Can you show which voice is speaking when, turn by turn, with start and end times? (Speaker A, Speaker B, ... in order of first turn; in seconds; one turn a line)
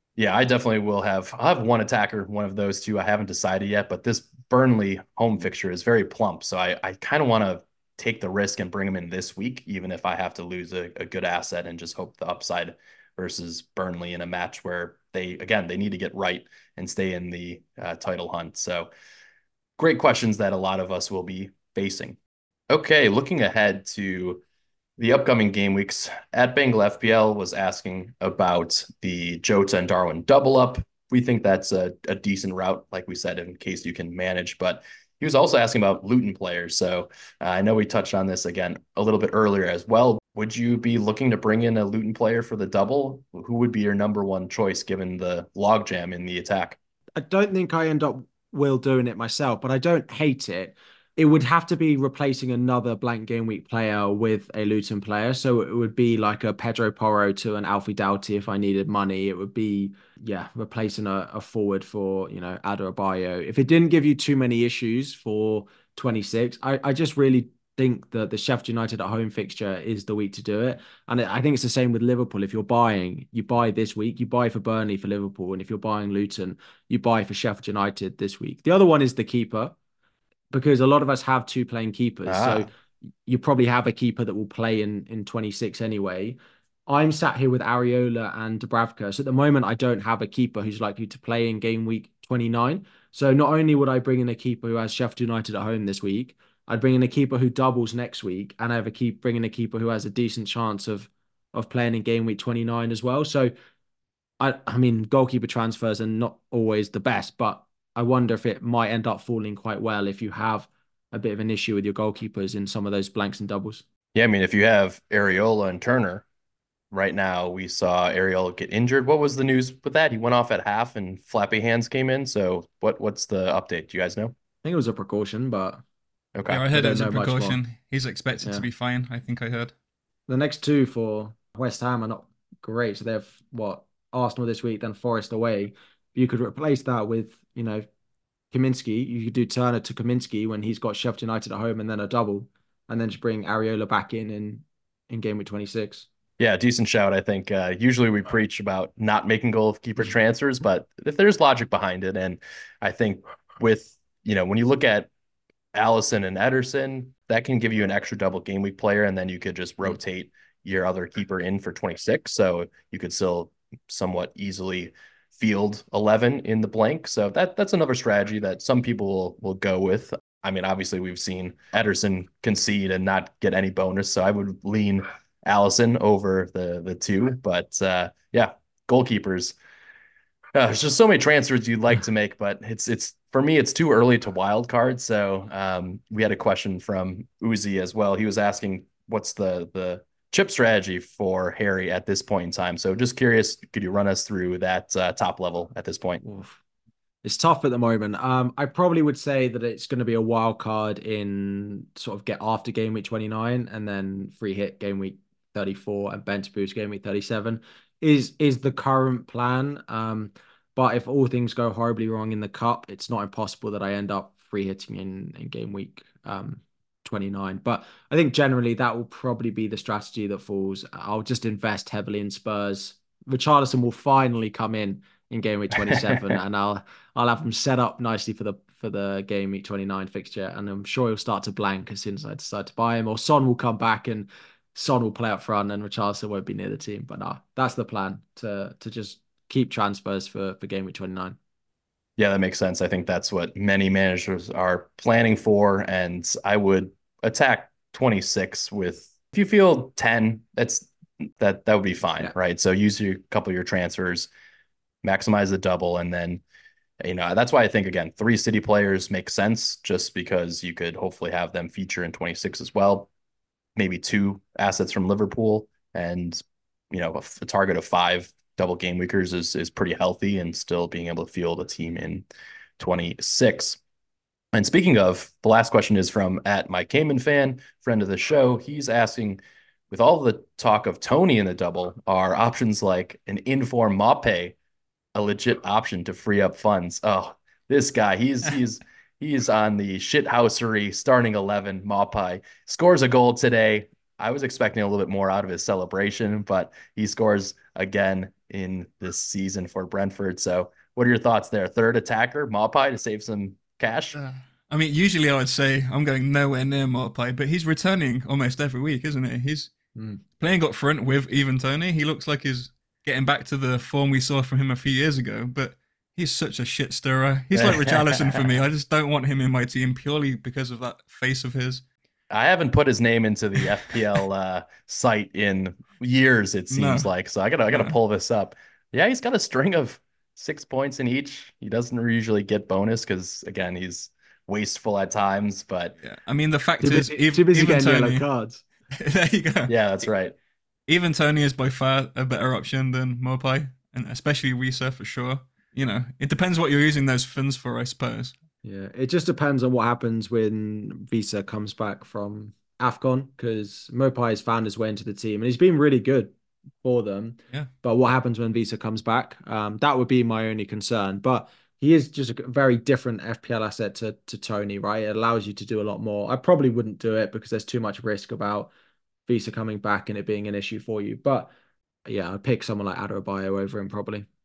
Speaker A: 0.2-18.9
Speaker A: 19.8-22.2
Speaker A: 22.7-24.4
Speaker A: 25.0-46.8
Speaker B: 47.1-79.8
Speaker B: 80.5-82.7
Speaker A: 82.2-82.7
Speaker B: 83.2-103.5
Speaker B: 104.4-113.8
Speaker A: 114.1-116.2
Speaker A: 116.9-124.3
Speaker B: 124.6-125.8
Speaker A: 126.3-126.7
Speaker C: 126.5-129.7
Speaker B: 126.7-127.6
Speaker B: 130.3-137.8
Speaker B: 138.5-146.1
Speaker A: 146.4-155.1
Speaker A: 155.7-179.5
Speaker A: 180.5-196.2
Speaker B: 196.2-196.6
Speaker B: 197.2-241.4
Speaker A: 225.9-226.2
Speaker A: 242.2-254.3
Speaker A: 255.0-256.4
Speaker A: 257.0-263.1
Speaker A: 263.8-272.2
Speaker A: 272.8-273.8
Speaker A: 274.5-284.6
Speaker A: 285.1-304.2
Speaker C: 304.1-309.7
Speaker B: 309.9-310.2
Speaker C: 310.4-321.8
Speaker A: 317.5-318.5
Speaker A: 322.3-335.9
Speaker C: 326.7-327.1
Speaker C: 336.0-338.2
Speaker B: 336.8-338.6
Speaker C: 338.9-339.7
Speaker A: 339.7-340.3
Speaker C: 340.9-348.3
Speaker B: 348.6-368.7
Speaker B: 369.2-371.5
Speaker B: 372.1-374.3